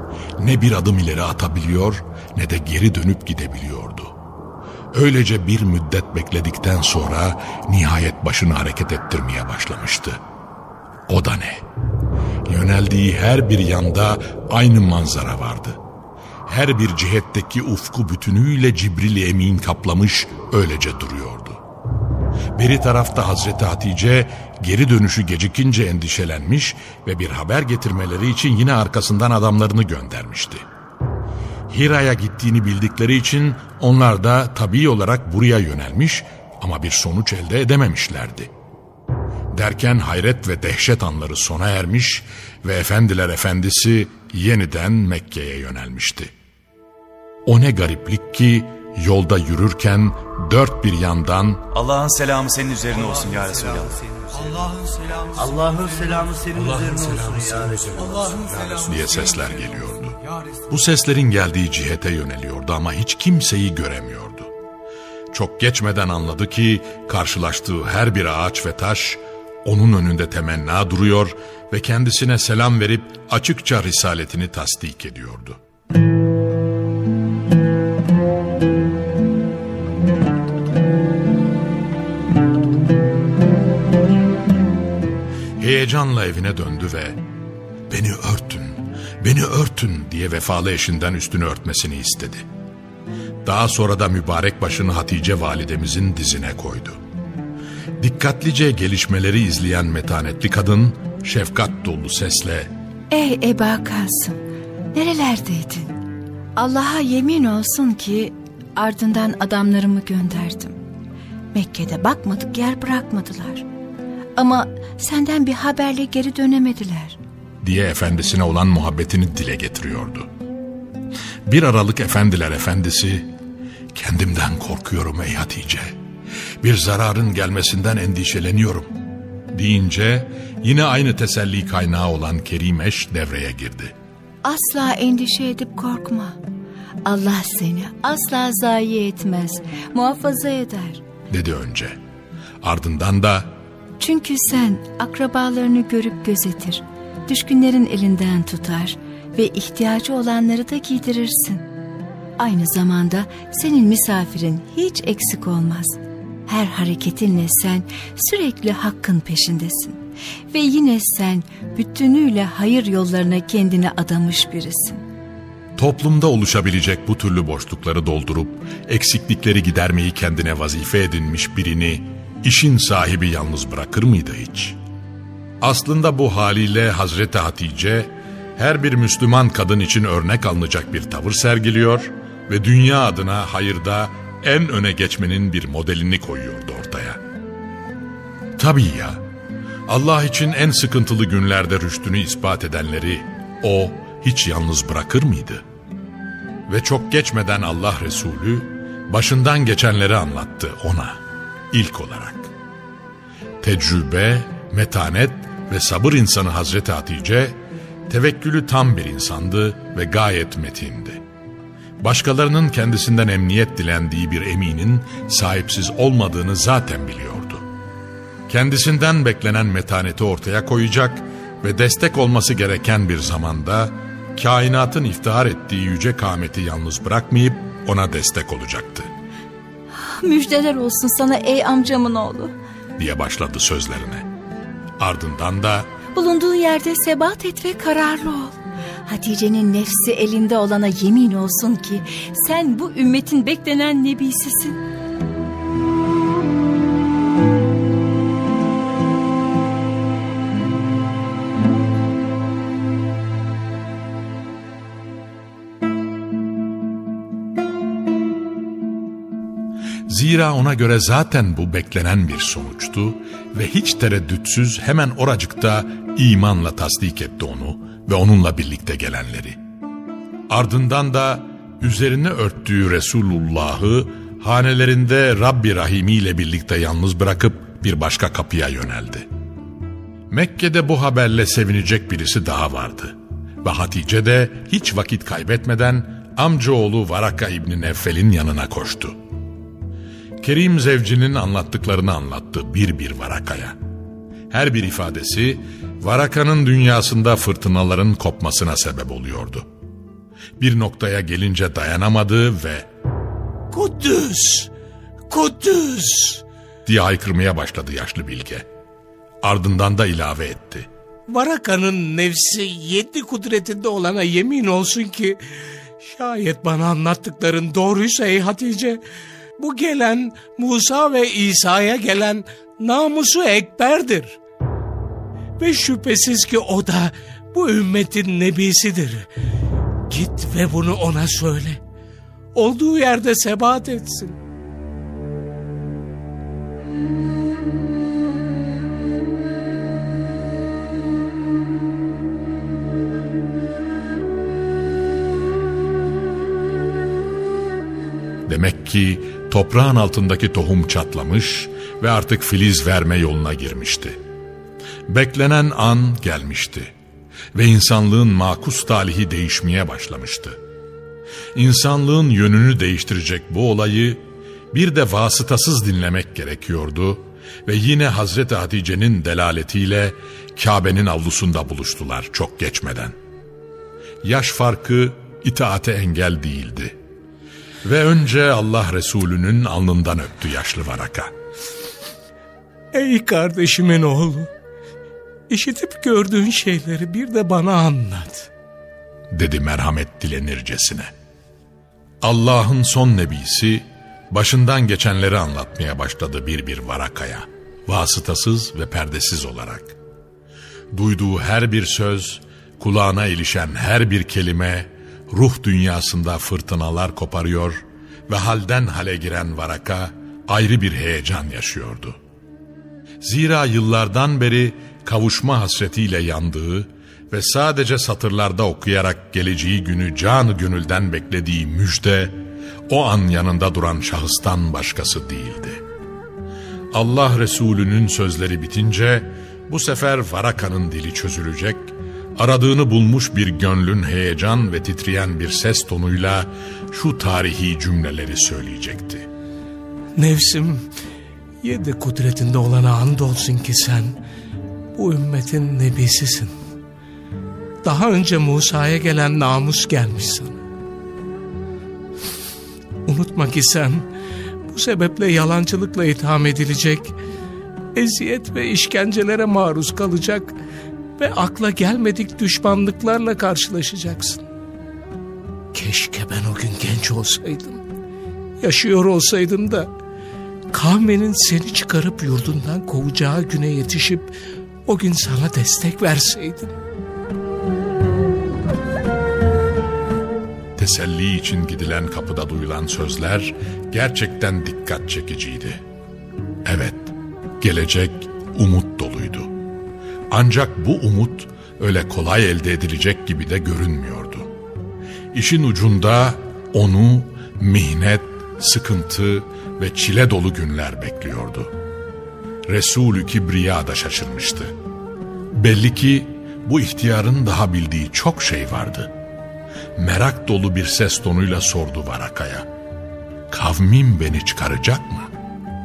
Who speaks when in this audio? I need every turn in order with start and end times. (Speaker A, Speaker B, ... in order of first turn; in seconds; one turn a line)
Speaker A: 0.4-4.1
Speaker A: 4.9-10.2
Speaker A: 11.1-11.6
Speaker A: 12.4-15.8
Speaker A: 16.4-21.6
Speaker A: 22.5-30.6
Speaker A: 31.7-38.5
Speaker A: 39.5-46.3
Speaker A: 47.5-51.8
Speaker B: 51.8-53.9
Speaker C: 55.4-57.4
Speaker B: 56.8-57.6
Speaker A: 58.6-64.5
Speaker A: 65.3-75.6
Speaker A: 85.6-87.2
Speaker A: 87.9-92.5
Speaker A: 93.4-97.0
Speaker A: 98.0-102.7
Speaker D: 103.1-104.4
Speaker D: 104.9-106.0
Speaker D: 106.5-110.8
Speaker D: 111.5-113.7
Speaker D: 114.4-117.2
Speaker A: 117.6-120.3
Speaker A: 121.5-123.3
Speaker A: 123.9-126.0
Speaker A: 126.6-128.9
Speaker A: 129.5-133.9
Speaker D: 134.4-136.4
Speaker D: 137.0-141.0
Speaker A: 141.3-142.0
Speaker A: 142.6-143.5
Speaker D: 144.0-151.7
Speaker D: 152.4-165.1
Speaker A: 165.8-174.8
Speaker A: 175.6-187.2
Speaker A: 188.6-189.2
Speaker A: 189.9-195.6
Speaker A: 196.7-201.2
Speaker A: 201.7-202.5
Speaker A: 203.6-211.2
Speaker A: 212.0-217.6
Speaker A: 218.5-229.1
Speaker D: 229.9-232.5
Speaker A: 233.0-234.3
Speaker A: 235.0-235.9
Speaker D: 236.1-244.8
Speaker A: 260.1-269.6
Speaker A: 270.5-279.3
Speaker A: 280.3-289.1
Speaker A: 290.4-293.8
Speaker A: 294.5-299.7
Speaker A: 300.6-302.9
Speaker E: 303.7-304.7
Speaker E: 305.3-306.4
Speaker A: 306.8-308.7
Speaker A: 309.4-310.9
Speaker E: 311.3-319.0
Speaker E: 319.6-324.4
Speaker E: 325.6-329.3
Speaker E: 330.1-331.8
Speaker E: 332.5-334.4
Speaker A: 348.4-354.2
Speaker A: 355.1-356.9
Speaker A: 357.5-360.6
Speaker A: 361.5-373.1
Speaker A: 374.2-377.0
Speaker A: 377.8-381.3
Speaker E: 382.9-384.5
Speaker E: 385.5-388.5
Speaker A: 389.3-391.1
Speaker A: 392.2-400.0
Speaker A: 400.9-412.2
Speaker A: 413.2-422.4
Speaker A: 422.9-425.8
Speaker A: 426.9-439.3
Speaker E: 440.2-440.9
Speaker E: 441.6-444.2
Speaker E: 444.9-446.5
Speaker E: 447.8-450.6
Speaker E: 453.1-454.1
Speaker E: 454.7-457.2
Speaker E: 457.9-460.6
Speaker E: 461.2-464.4
Speaker E: 465.7-467.8
Speaker E: 468.6-469.9
Speaker E: 470.7-476.8
Speaker A: 480.8-485.8
Speaker A: 486.6-489.5
Speaker A: 490.3-494.5
Speaker A: 495.3-501.7
Speaker A: 502.7-504.7
Speaker A: 505.5-509.1
Speaker A: 510.0-512.7
Speaker A: 513.5-515.3